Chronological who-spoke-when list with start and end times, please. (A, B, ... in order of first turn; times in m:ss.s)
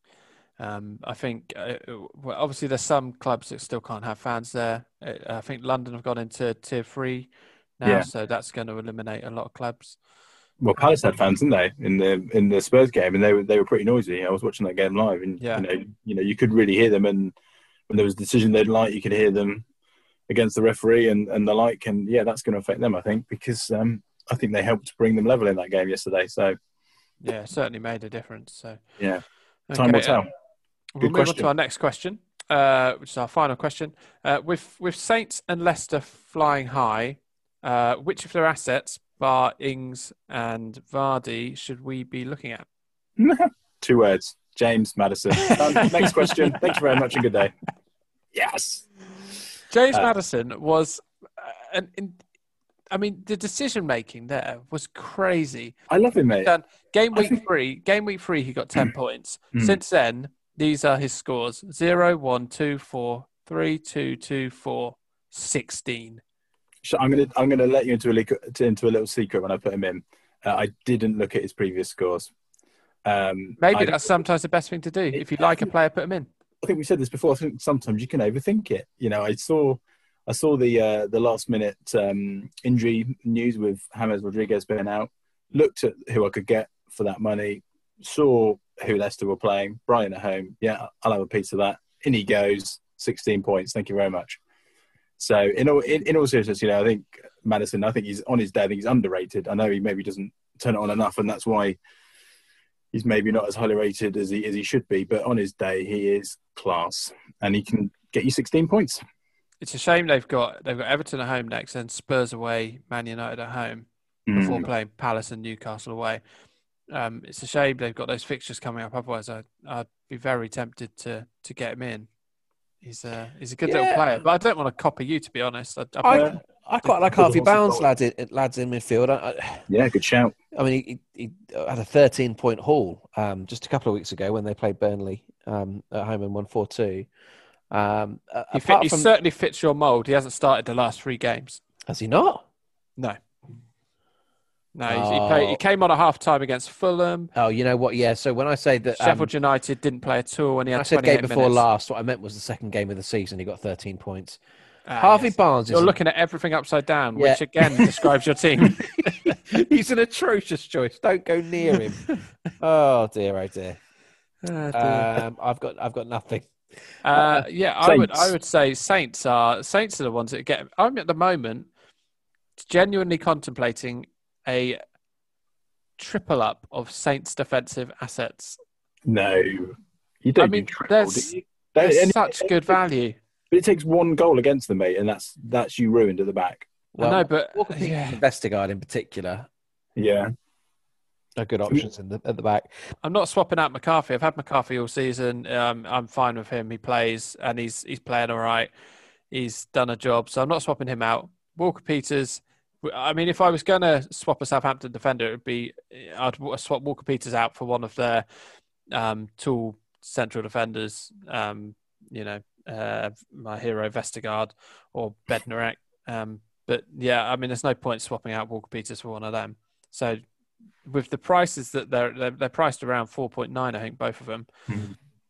0:00.6-0:07.3 A
0:07.8-0:10.0 A
0:10.6-0:17.3 B
0:15.4-0:15.6 A
0:17.9-0:19.6 B
0:20.3-0:26.6 B
0:27.2-0:28.8 A
0:29.0-0:30.3 B
0:29.7-0:30.2 A
0:31.0-0:42.6 A
0:31.0-0:31.5 B
0:43.2-0:47.5 B
0:45.4-0:46.8 A
0:48.3-0:48.9 B
0:49.7-0:52.2 A
0:52.9-0:55.7 A
0:55.9-0:56.5 B
0:56.4-1:06.2 A
0:57.1-0:57.4 B
0:59.5-0:59.8 B
1:06.8-1:12.3 B
1:13.0-1:14.1 B
1:13.6-1:16.3 A
1:15.1-1:15.6 B
1:16.6-1:34.4 B
1:35.2-1:41.8 B
1:42.9-1:49.0 B
1:49.6-1:56.2 A
1:54.3-1:54.7 B
1:56.9-2:02.1 A
2:02.8-2:07.0 A
2:03.6-2:04.0 C
2:06.0-2:09.7 C
2:06.1-2:06.4 B
2:07.1-2:07.9 B
2:09.7-2:10.3 B
2:10.5-2:17.1 C
2:17.7-2:19.1 C
2:18.5-2:21.6 A
2:21.9-2:22.4 C
2:24.7-2:27.3 A
2:24.9-2:25.6 C
2:27.3-2:29.3 C
2:29.0-2:31.6 A
2:30.7-2:34.4 C
2:34.9-2:39.3 A
2:35.0-2:36.0 C
2:37.2-2:38.1 C
2:38.7-2:42.0 C
2:42.6-2:43.8 C
2:44.4-2:45.2 A
2:44.7-2:46.5 C
2:47.0-2:51.7 A
2:47.2-2:47.4 C
2:47.8-2:48.3 B
2:52.6-2:54.8 A
2:56.0-2:58.6 A
2:59.0-3:02.8 B
3:00.4-3:03.2 A
3:03.5-3:06.7 B
3:06.9-3:09.5 C
3:07.0-3:08.2 A
3:10.0-3:10.3 B
3:11.4-3:12.7 C
3:13.0-3:18.7 A
3:19.3-3:28.2 A
3:28.9-3:40.2 A
3:40.9-3:44.5 A
3:44.7-3:44.9 B